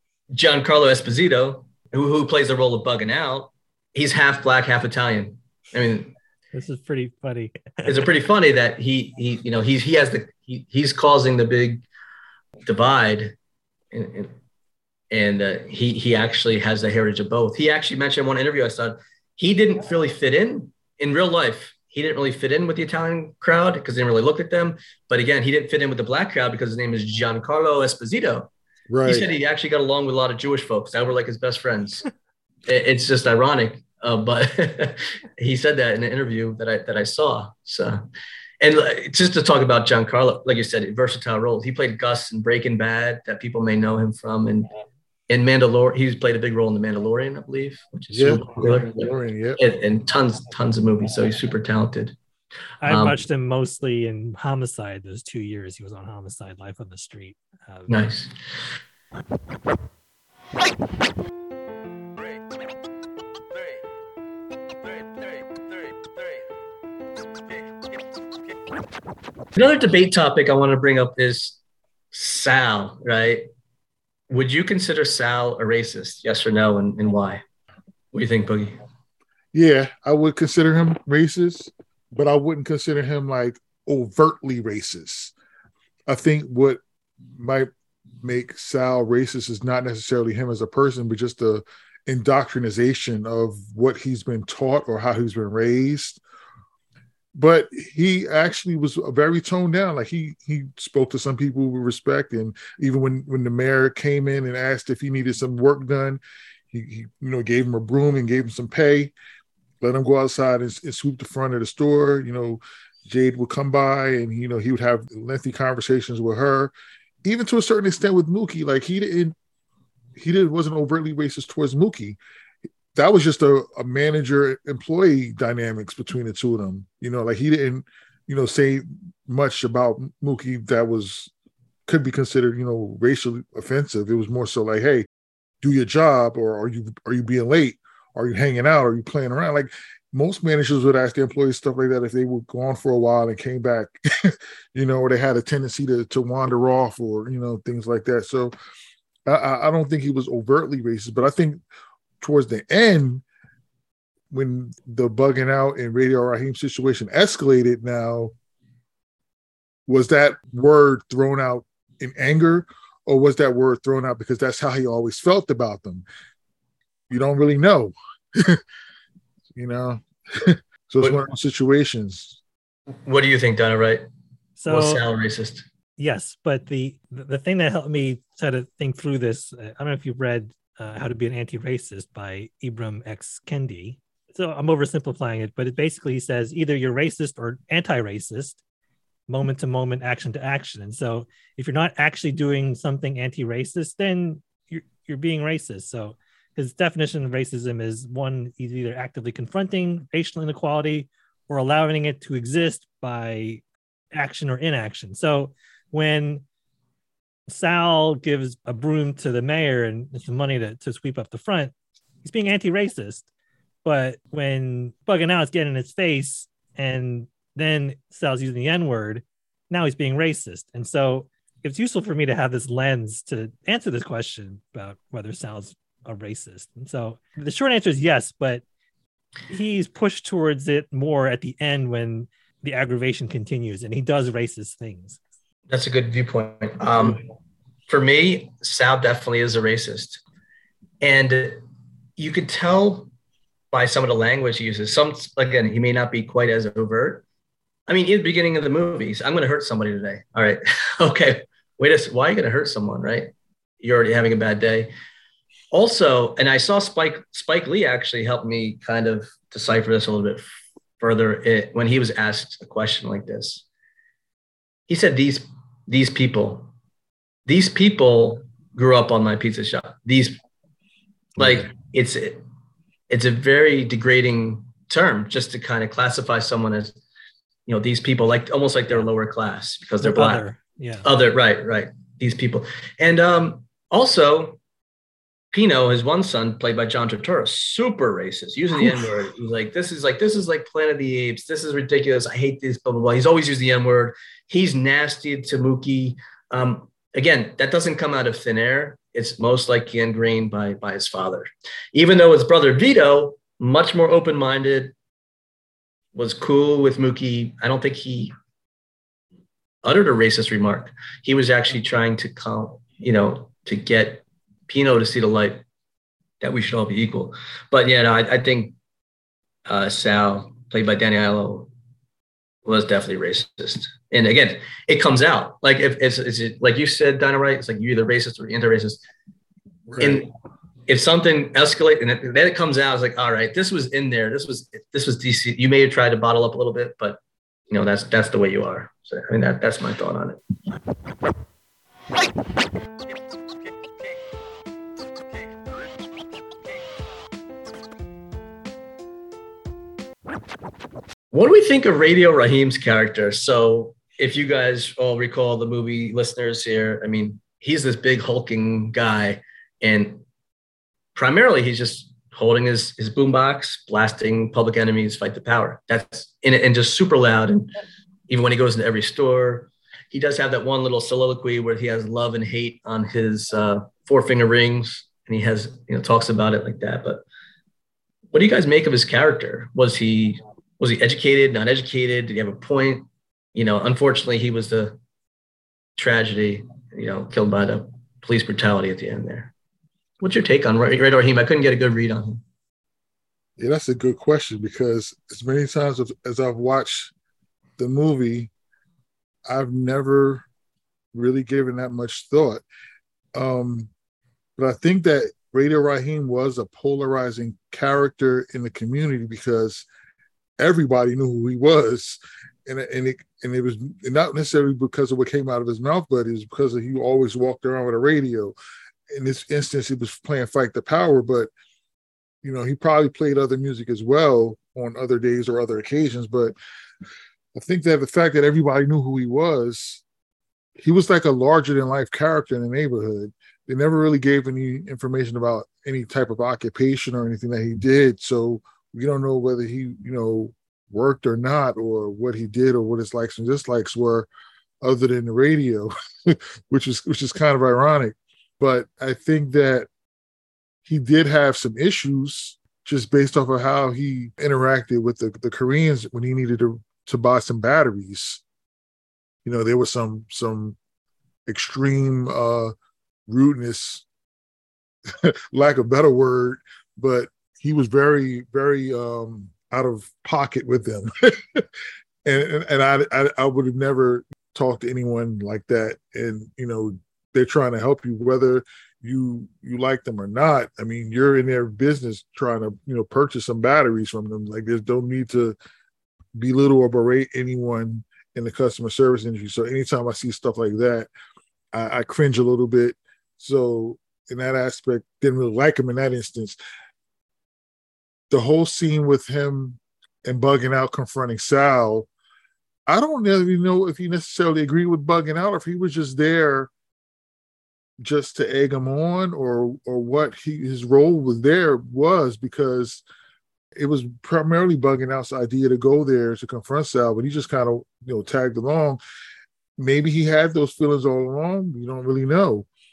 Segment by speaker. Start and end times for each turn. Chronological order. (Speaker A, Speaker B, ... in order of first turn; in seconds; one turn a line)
Speaker A: 0.3-6.2
Speaker B: 6.5-8.0
Speaker A: 7.9-11.8
Speaker A: 12.6-13.3
Speaker A: 13.9-14.3
Speaker A: 15.1-28.5
Speaker C: 28.9-29.3
Speaker A: 29.0-32.0
Speaker A: 32.7-38.0
Speaker A: 38.6-44.7
Speaker A: 45.3-52.1
Speaker C: 48.1-49.6
Speaker B: 52.8-58.0
Speaker A: 52.9-53.2
Speaker A: 57.9-58.3
Speaker A: 69.5-71.6
Speaker A: 72.1-73.5
Speaker A: 74.3-77.4
Speaker A: 78.1-78.8
Speaker C: 79.5-85.3
Speaker C: 86.1-86.8
Speaker C: 87.4-87.7
Speaker C: 88.2-96.2
Speaker C: 97.3-106.2
Speaker C: 106.7-109.1
Speaker C: 109.8-116.7
Speaker C: 117.2-119.4
Speaker C: 120.2-122.2
Speaker C: 123.0-131.3
Speaker C: 131.9-135.1
Speaker C: 135.6-148.5
Speaker C: 149.3-151.6
Speaker C: 152.2-153.2
Speaker C: 154.3-158.3
Speaker C: 159.9-166.1
Speaker C: 167.1-168.6
Speaker C: 169.6-172.4
Speaker A: 173.1-174.0
Speaker B: 174.6-175.0
Speaker A: 174.7-175.7
Speaker B: 176.0-188.6
Speaker B: 189.3-203.6
Speaker B: 204.1-206.4
Speaker B: 207.5-213.3
Speaker B: 213.8-228.6
Speaker B: 229.5-235.2
Speaker A: 235.7-237.2
Speaker A: 237.9-240.2
Speaker A: 241.0-241.6
Speaker A: 242.2-243.1
Speaker A: 243.7-247.2
Speaker A: 247.9-254.9
Speaker A: 255.7-260.4
Speaker A: 261.0-263.6
Speaker A: 264.9-266.7
Speaker A: 267.5-270.4
Speaker A: 271.4-272.4
Speaker C: 271.4-271.7
Speaker A: 273.1-277.0
Speaker A: 277.7-280.4
Speaker B: 280.0-281.1
Speaker A: 281.0-284.6
Speaker A: 285.5-304.9
Speaker A: 306.1-308.3
Speaker A: 309.8-315.6
Speaker A: 316.4-318.8
Speaker A: 319.7-321.7
Speaker A: 322.6-329.0
Speaker C: 329.9-330.3
Speaker A: 330.0-330.3
Speaker A: 330.9-337.2
Speaker A: 337.7-340.4
Speaker A: 351.3-360.2
Speaker A: 361.1-367.7
Speaker A: 368.3-377.2
Speaker A: 378.3-385.0
Speaker A: 386.0-389.5
Speaker A: 390.2-392.4
Speaker C: 393.6-397.1
Speaker C: 397.8-398.5
Speaker C: 399.5-400.4
Speaker C: 401.1-402.6
Speaker C: 403.4-403.9
Speaker C: 404.6-409.9
Speaker C: 410.6-418.6
Speaker C: 419.1-421.5
Speaker C: 422.4-426.6
Speaker C: 427.6-430.0
Speaker C: 430.8-444.3
Speaker C: 444.8-449.9
Speaker C: 450.9-458.4
Speaker C: 459.4-460.8
Speaker C: 461.5-462.7
Speaker C: 463.3-464.1
Speaker C: 465.1-471.7
Speaker C: 472.2-485.6
Speaker C: 486.4-491.1
Speaker C: 491.7-496.6
Speaker C: 498.3-502.1
Speaker C: 502.9-506.7
Speaker C: 508.0-513.0
Speaker C: 513.8-519.0
Speaker C: 519.8-522.7